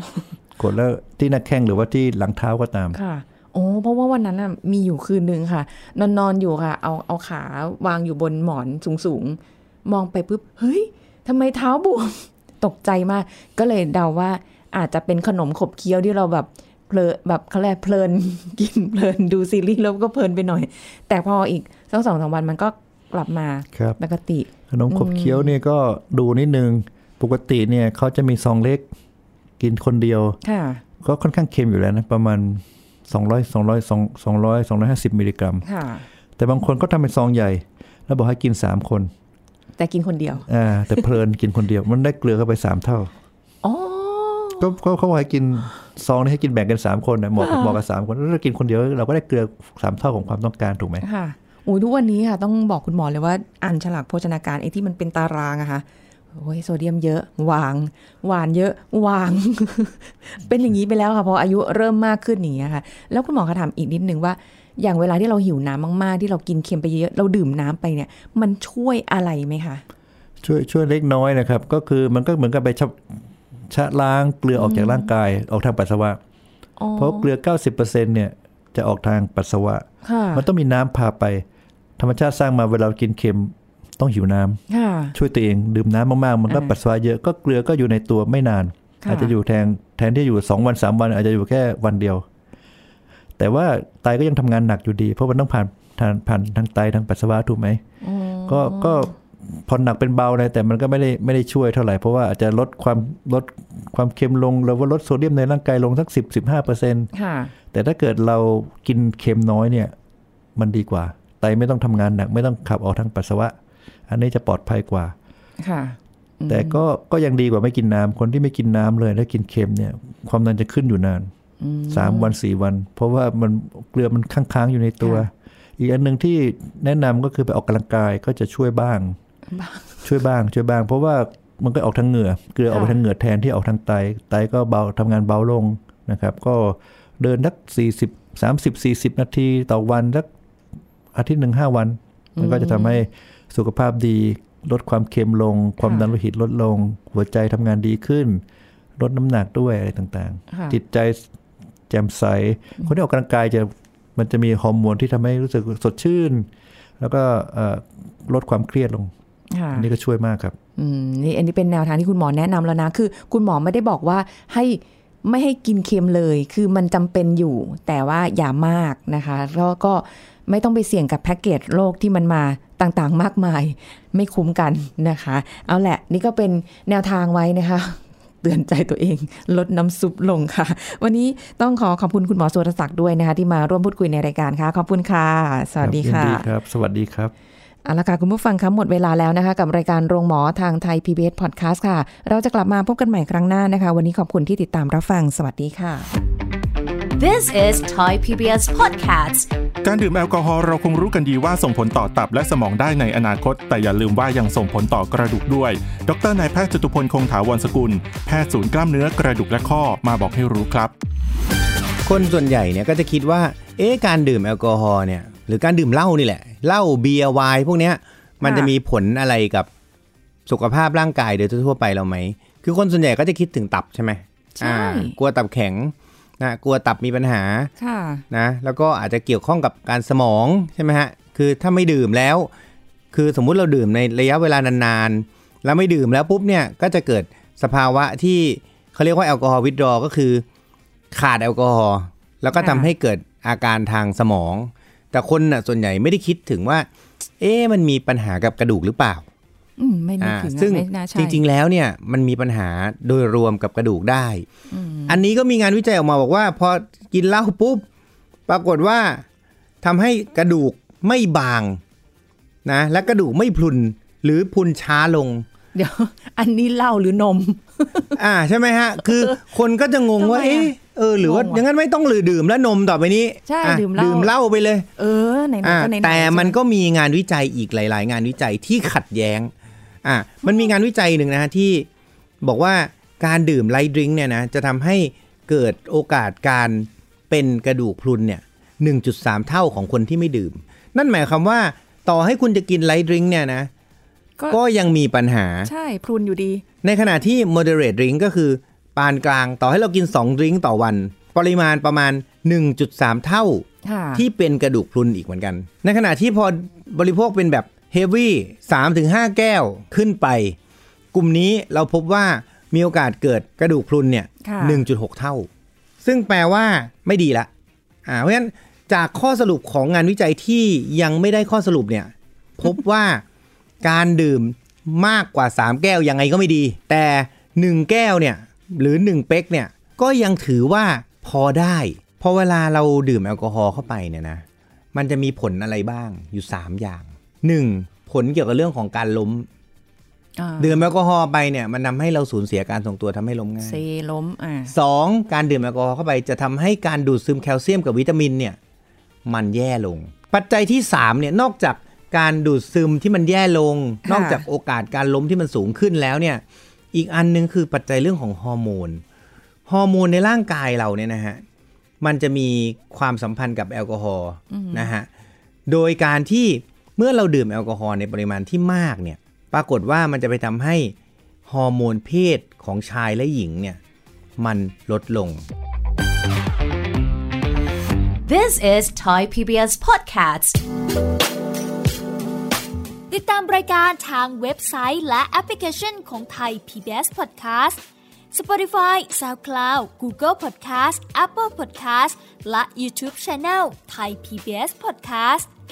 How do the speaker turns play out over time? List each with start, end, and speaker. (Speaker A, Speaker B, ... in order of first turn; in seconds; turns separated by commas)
Speaker A: 0.6-3.0, Speaker B: 2.9-25.5, Speaker A: 23.7-24.0, Speaker A: 24.7-28.9, Speaker A: 29.6-30.4, Speaker B: 30.4-30.8, Speaker A: 31.0-35.6, Speaker B: 35.6-36.0, Speaker A: 36.4-39.1, Speaker B: 39.8-40.5, Speaker A: 40.5-43.1, Speaker B: 43.6-44.7, Speaker A: 44.6-51.0, Speaker B: 47.4-47.8, Speaker B: 51.0-69.8, Speaker A: 70.4-73.0, Speaker A: 73.7-76.2, Speaker B: 74.5-75.1, Speaker B: 76.8-77.3, Speaker A: 77.0-81.4, Speaker B: 80.0-80.4, Speaker A: 82.0-84.6, Speaker B: 84.7-85.1, Speaker A: 85.1-92.2, Speaker B: 89.0-89.3, Speaker A: 93.4-97.8, Speaker B: 98.0-99.1, Speaker A: 98.5-107.1, Speaker B: 107.1-107.5, Speaker A: 107.7-109.9, Speaker A: 110.5-113.5, Speaker A: 114.1-115.1, Speaker B: 115.6-116.8, Speaker A: 116.5-121.3, Speaker B: 121.6-122.3, Speaker A: 121.9-129.2, Speaker B: 125.0-125.3, Speaker B: 129.5-130.0, Speaker A: 130.0-140.3, Speaker B: 132.7-133.0, Speaker A: 141.1-148.4, Speaker B: 142.3-143.0, Speaker B: 145.8-146.1, Speaker A: 149.0-151.2, Speaker B: 150.5-150.8, Speaker A: 151.9-156.5, Speaker A: 157.0-159.1, Speaker B: 159.5-159.9, Speaker A: 159.7-160.6, Speaker B: 160.8-186.4, Speaker A: 185.8-187.3, Speaker B: 187.8-196.1, Speaker C: 197.2-199.5, Speaker D: 199.8-210.9, Speaker E: 212.0-219.7, Speaker B: 218.4-218.7, Speaker E: 220.5-227.7, Speaker B: 224.6-225.2, Speaker B: 227.8-228.2, Speaker E: 228.3-232.5, Speaker E: 233.1-240.4, Speaker E: 241.1-246.9, Speaker B: 242.6-242.9, Speaker E: 247.4-249.2, Speaker B: 249.8-251.4, Speaker E: 250.2-254.4, Speaker B: 254.7-255.2, Speaker E: 255.1-257.8, Speaker E: 258.5-259.2, Speaker E: 259.8-261.8, Speaker E: 262.6-265.4, Speaker B: 265.7-268.2, Speaker E: 268.2-274.9, Speaker B: 269.0-269.4, Speaker B: 270.2-271.6, Speaker B: 273.4-274.3, Speaker B: 275.0-276.6, Speaker E: 275.6-279.5, Speaker E: 280.0-281.9, Speaker E: 282.4-293.7, Speaker E: 294.5-295.7, Speaker B: 295.6-296.6, Speaker E: 296.8-310.6, Speaker B: 303.8-304.2, Speaker E: 311.1-315.5, Speaker B: 314.4-314.8, Speaker E: 316.0-317.5, Speaker E: 318.1-323.2, Speaker E: 323.8-339.5, Speaker B: 340.4-340.9, Speaker E: 340.6-343.8, Speaker B: 343.6-344.7, Speaker E: 344.7-348.6, Speaker E: 349.2-356.4, Speaker B: 354.1-354.4, Speaker E: 356.9-359.0, Speaker E: 359.7-361.4, Speaker E: 362.0-365.1, Speaker B: 364.5-364.9, Speaker E: 365.7-370.9, Speaker E: 371.5-373.8, Speaker E: 374.4-375.4, Speaker C: 378.2-380.6, Speaker F: 383.1-395.5